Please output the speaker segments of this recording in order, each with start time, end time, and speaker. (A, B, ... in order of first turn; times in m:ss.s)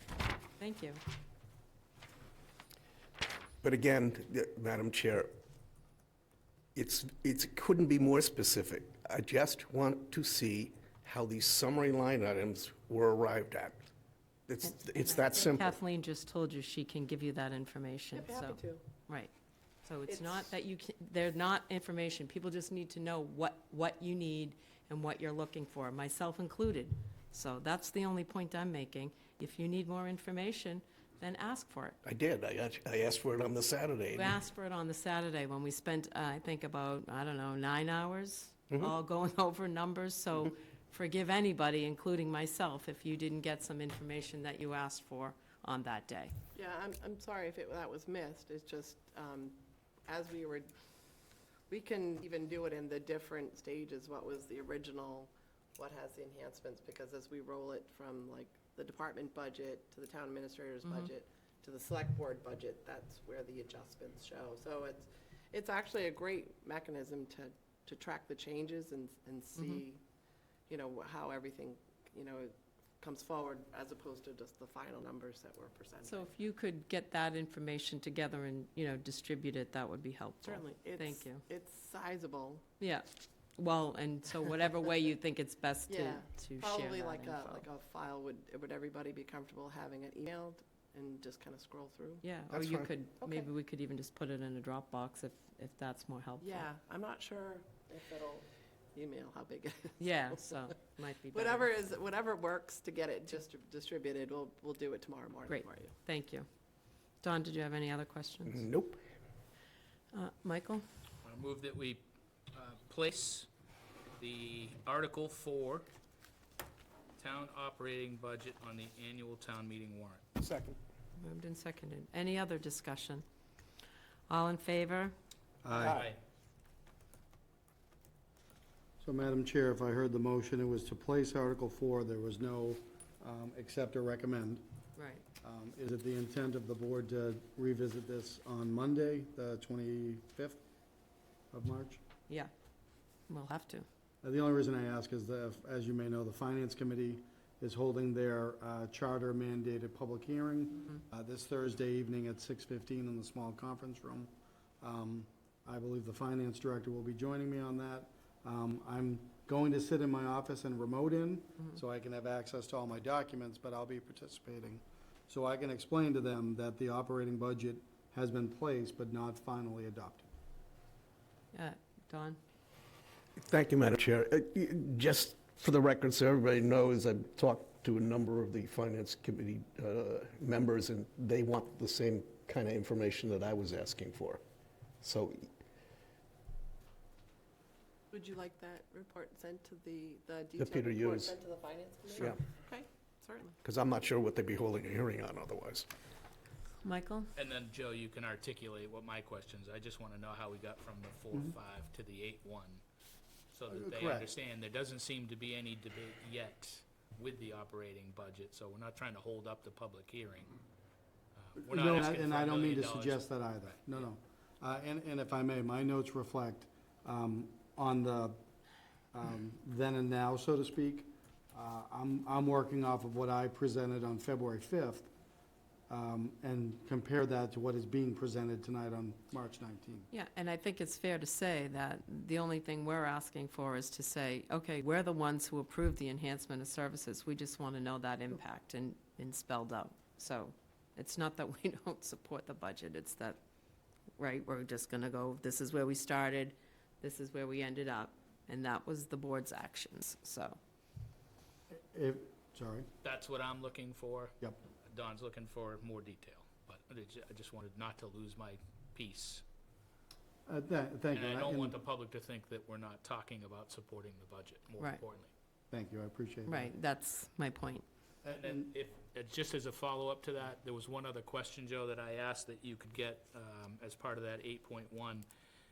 0:00.6-0:01.0 A
0:03.6-0:05.3 B
0:06.8-0:13.9 B
0:14.5-0:15.8 B
0:14.7-0:19.3 A
0:18.2-0:18.8 C
0:19.8-0:32.0 A
0:20.1-0:20.4 C
0:32.0-0:34.4 B
0:34.1-0:46.3 A
0:46.5-0:50.7 C
0:51.7-1:10.0 C
1:10.7-1:16.3 C
1:16.0-1:21.4 A
1:20.4-1:22.6 C
1:22.8-1:23.1 A
1:23.6-1:27.6 A
1:25.9-1:32.2 C
1:32.2-1:36.6 A
1:32.5-1:32.9 B
1:33.2-1:33.5 C
1:36.4-1:40.0 C
1:40.0-1:41.7 A
1:41.3-1:45.9 C
1:45.5-1:46.5 A
1:47.2-1:48.7 A
1:48.5-1:49.0 B
1:50.1-1:50.8 A
1:51.2-1:53.5 D
1:54.2-1:55.9 D
1:57.2-2:00.4 D
2:01.2-2:03.2 A
2:04.3-2:05.1 A
2:05.6-2:06.0 E
2:05.8-2:06.2 D
2:09.0-2:14.6 E
2:15.0-2:15.2 A
2:15.4-2:20.6 E
2:21.5-2:22.0 E
2:23.3-2:23.9 A
2:24.2-2:50.3 E
2:51.5-2:52.4 A
2:53.4-3:04.4 B
3:05.0-3:05.5 B
3:08.1-3:13.6 C
3:10.6-3:11.4 B
3:13.6-3:15.9 B
3:16.8-3:17.3 A
3:17.4-3:22.8 D
3:23.5-3:30.6 D
3:23.7-3:24.3 E
3:31.4-3:34.1 D
3:31.6-3:38.4 E
3:39.1-3:45.1 E
3:45.9-3:50.1 E
3:50.1-4:03.4 A
4:04.2-4:10.6 A
4:11.7-4:12.9 E
4:13.0-4:14.4 D
4:14.9-4:19.4 D
4:20.5-4:21.8 E
4:21.1-4:25.3 D
4:25.7-4:26.7 E
4:26.5-4:27.8 A
4:28.2-4:28.7 E
4:28.3-4:35.3 D